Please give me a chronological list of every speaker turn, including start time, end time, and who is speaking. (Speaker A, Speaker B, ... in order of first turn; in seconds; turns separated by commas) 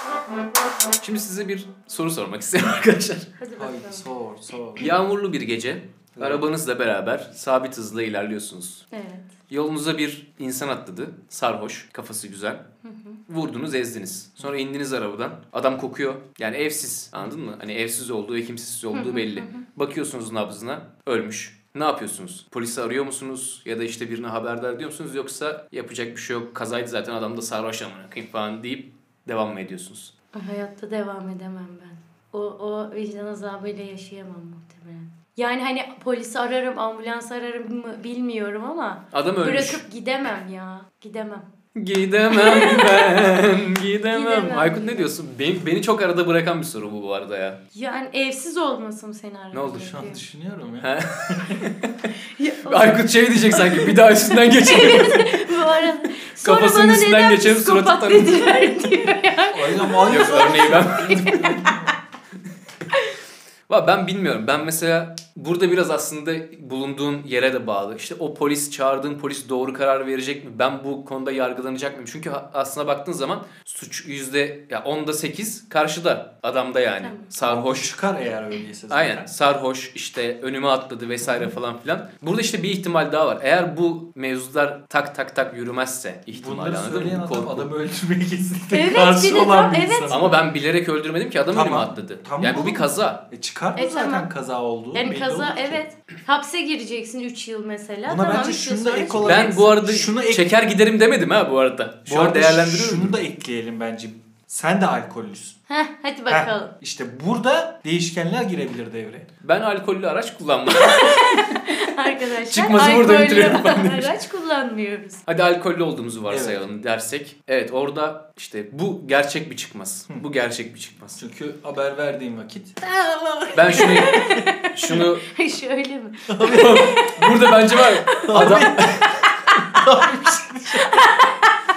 Speaker A: 1.0-3.3, Speaker B: 3.4-4.0, Speaker C: 3.6-4.9, Speaker A: 4.8-8.8, Speaker C: 6.2-6.5, Speaker B: 8.9-9.3, Speaker A: 9.5-12.6, Speaker B: 12.8-13.2, Speaker A: 13.3-30.1, Speaker B: 18.9-19.6, Speaker B: 30.3-41.5, Speaker A: 39.1-39.8, Speaker A: 41.8-47.6, Speaker B: 42.3-43.2, Speaker B: 44.1-45.1, Speaker B: 47.7-50.2, Speaker A: 49.5-49.9, Speaker C: 49.7-51.6, Speaker A: 50.8-52.1, Speaker B: 52.4-61.7, Speaker A: 52.7-55.6, Speaker A: 56.4-58.9, Speaker C: 59.5-62.0, Speaker A: 60.1-61.5, Speaker A: 63.7-77.9, Speaker B: 77.0-77.3, Speaker C: 77.4-79.3, Speaker A: 78.9-87.7, Speaker C: 81.2-81.5, Speaker C: 86.3-90.4, Speaker B: 88.7-90.2, Speaker A: 90.1-93.2, Speaker C: 91.5-95.8, Speaker B: 93.8-94.3, Speaker B: 94.9-99.8, Speaker C: 98.1-100.5, Speaker A: 99.2-103.2, Speaker C: 102.1-105.6, Speaker B: 105.7-106.7, Speaker C: 106.3-109.3, Speaker A: 109.4-111.6, Speaker B: 110.9-115.2, Speaker A: 112.5-114.1, Speaker A: 115.3-121.2, Speaker C: 116.3-116.6, Speaker C: 121.2-124.2, Speaker A: 123.5-125.3, Speaker B: 123.6-130.0, Speaker C: 126.3-126.9, Speaker A: 126.5-129.1, Speaker C: 128.3-129.1, Speaker C: 129.7-131.1, Speaker B: 130.7-131.5